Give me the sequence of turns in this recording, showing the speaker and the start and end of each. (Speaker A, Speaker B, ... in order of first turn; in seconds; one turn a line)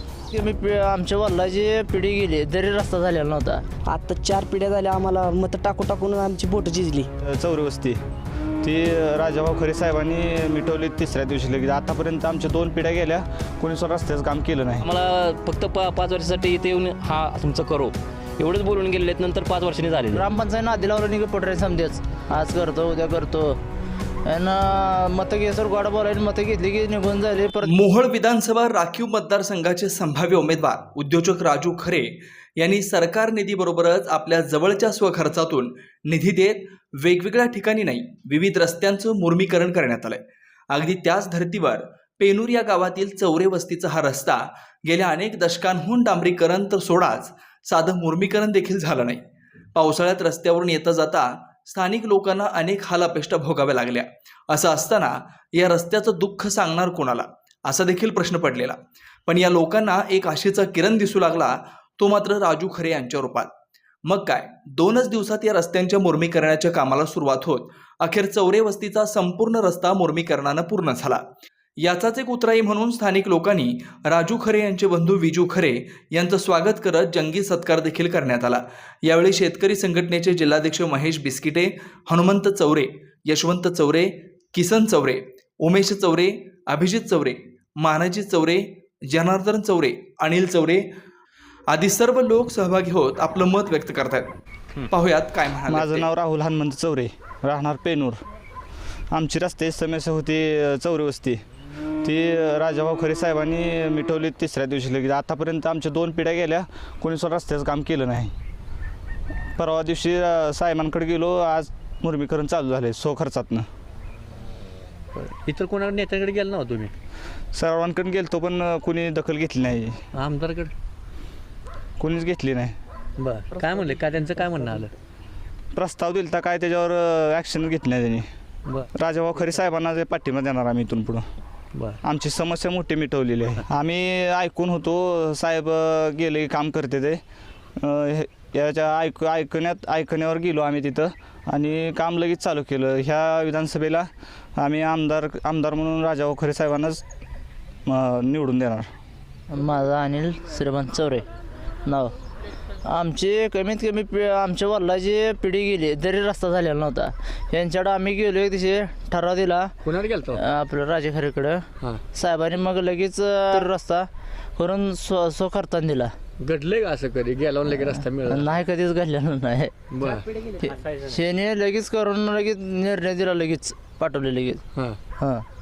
Speaker A: 0.3-3.6
Speaker B: 3.9-7.1
Speaker C: 7.2-8.0
Speaker C: 8.6-14.9
Speaker D: 14.8-20.2
Speaker A: 20.1-23.6
Speaker A: 24.2-27.7
Speaker E: 27.6-40.2
Speaker E: 40.7-49.2
Speaker E: 49.8-63.5
Speaker E: 64.1-71.2
Speaker E: 71.8-90.8
Speaker E: 91.7-94.3
Speaker E: 94.9-96.1
Speaker C: 95.7-98.2
Speaker C: 99.1-101.4
Speaker C: 102.0-108.3
Speaker C: 109.6-113.7
Speaker F: 115.1-116.9
Speaker C: 117.5-120.0
Speaker F: 120.2-120.7
Speaker C: 122.0-122.8
Speaker F: 123.2-124.9
Speaker C: 125.7-128.2
Speaker C: 128.9-131.2
Speaker F: 131.7-132.0
Speaker C: 132.0-137.2
Speaker C: 137.8-147.0
Speaker C: 147.9-148.9
Speaker A: 149.5-151.2
Speaker A: 151.8-152.1
Speaker A: 152.8-159.7
Speaker F: 159.8-160.4
Speaker A: 160.3-166.1
Speaker F: 166.4-168.4
Speaker A: 167.9-169.7
Speaker F: 169.9-170.3
Speaker A: 170.6-174.6
Speaker F: 174.7-175.0
Speaker A: 175.2-175.4